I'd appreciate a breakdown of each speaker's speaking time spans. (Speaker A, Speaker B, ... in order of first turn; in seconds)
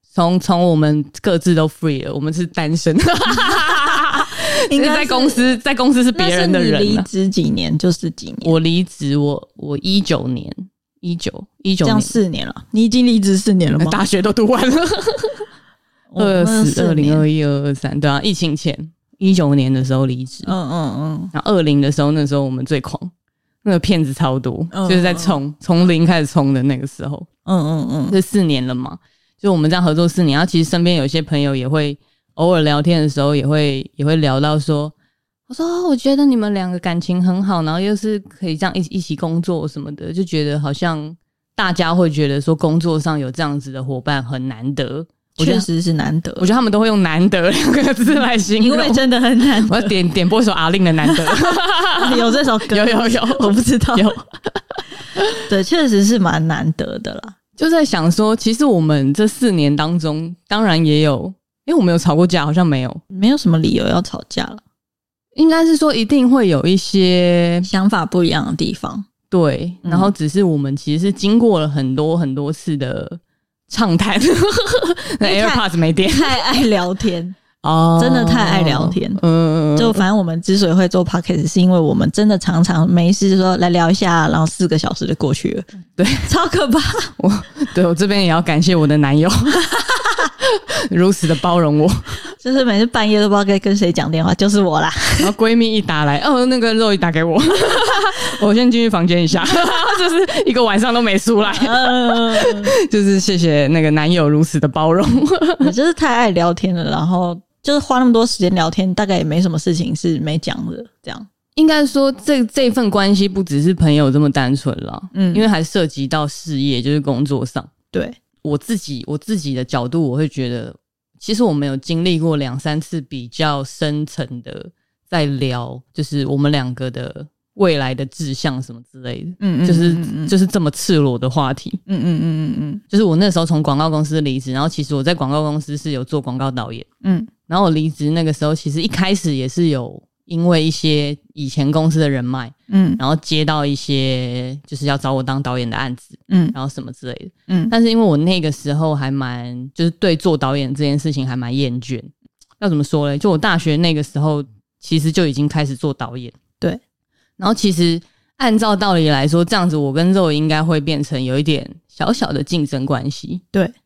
Speaker A: 0.1-7.1, 8.4-12.2, 13.8-15.5, 16.2-20.5, 21.3-23.1, 23.6-27.3, 28.1-34.9, 35.5-45.7, 46.4-49.0, 49.6-55.3, 57.6-63.0, 65.4-67.7, 69.3-76.4, 77.6-80.0, 86.0-86.3, 87.2-89.7, 90.4-92.2, 95.2-105.7, 111.5-117.7, 118.4-131.8, 132.9-136.9, 137.5-156.4, 157.4-163.4
Speaker B: 4.1-5.6, 6.1-8.6, 11.8-14.0, 16.1-17.2, 20.5-21.3, 24.7-25.4, 27.5-28.2, 45.4-46.5, 48.6-49.9, 52.0-54.2, 55.5-57.4, 63.1-64.6, 67.7-69.1, 69.8-70.1, 75.2-77.4, 78.0-79.2, 79.8-85.7, 86.3-87.1, 92.4-95.3, 101.5-102.7, 105.6-111.3, 115.1-115.5, 129.4-130.3, 131.9-132.8, 137.0-137.3, 142.7-143.0, 146.3-146.6